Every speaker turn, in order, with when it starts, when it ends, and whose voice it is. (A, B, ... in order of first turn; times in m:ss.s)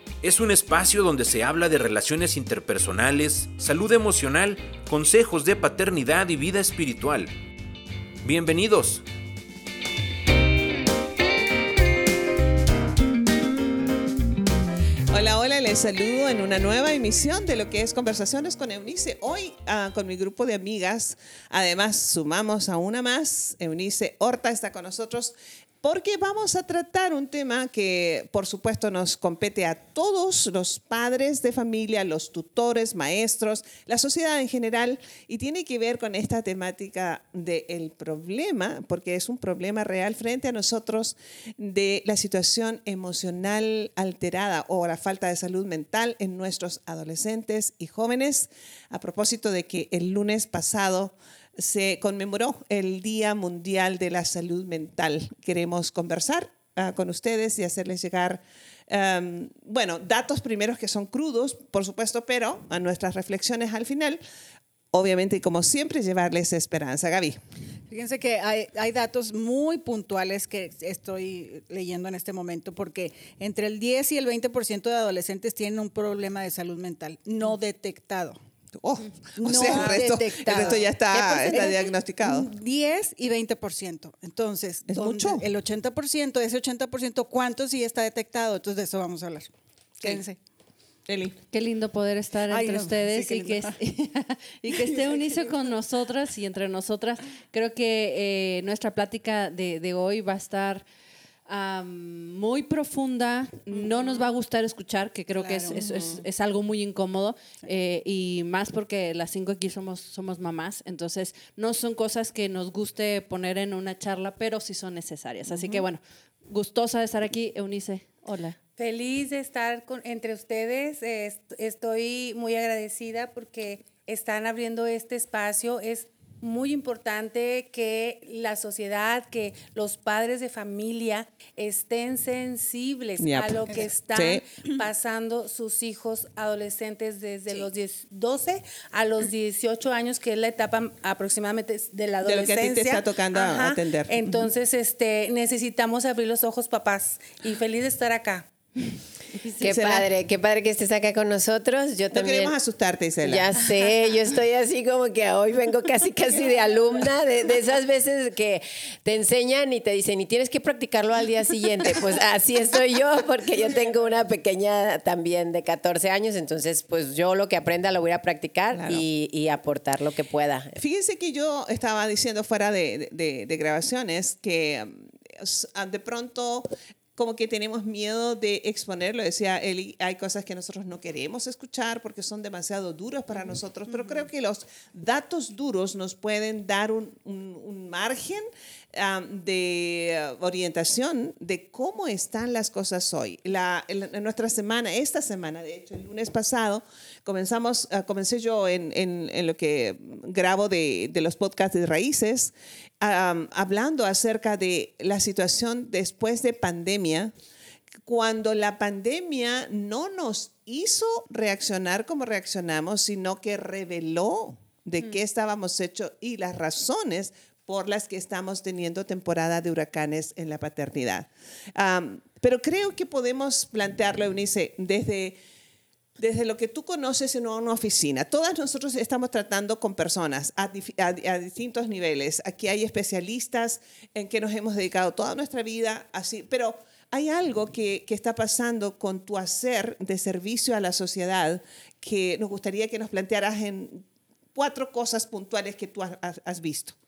0:00.2-0:07.3 A
0:08.2-0:09.0 A
0:15.1-1:04.2 B
1:04.9-1:07.4 B
1:07.9-1:18.4 C
1:18.8-1:22.5 B
1:19.4-1:30.4 C
1:24.9-1:25.4 B
1:31.1-1:31.4 B
1:31.5-1:40.8 D
1:32.5-1:33.8 C
1:34.7-1:35.4 C
1:41.5-1:58.6 D
1:45.4-1:45.9 C
1:45.7-1:46.0 B
1:58.8-2:28.5 E
2:13.2-2:14.4 B
2:22.2-2:24.5 B
2:29.6-2:30.1 B
2:29.6-2:32.6 F
2:32.1-2:33.5 B
2:33.2-2:50.8 F
2:48.7-2:49.0 B
2:50.8-3:27.3 B
3:28.0-3:45.4 B
3:46.2-4:04.0 B
4:04.6-4:07.0 B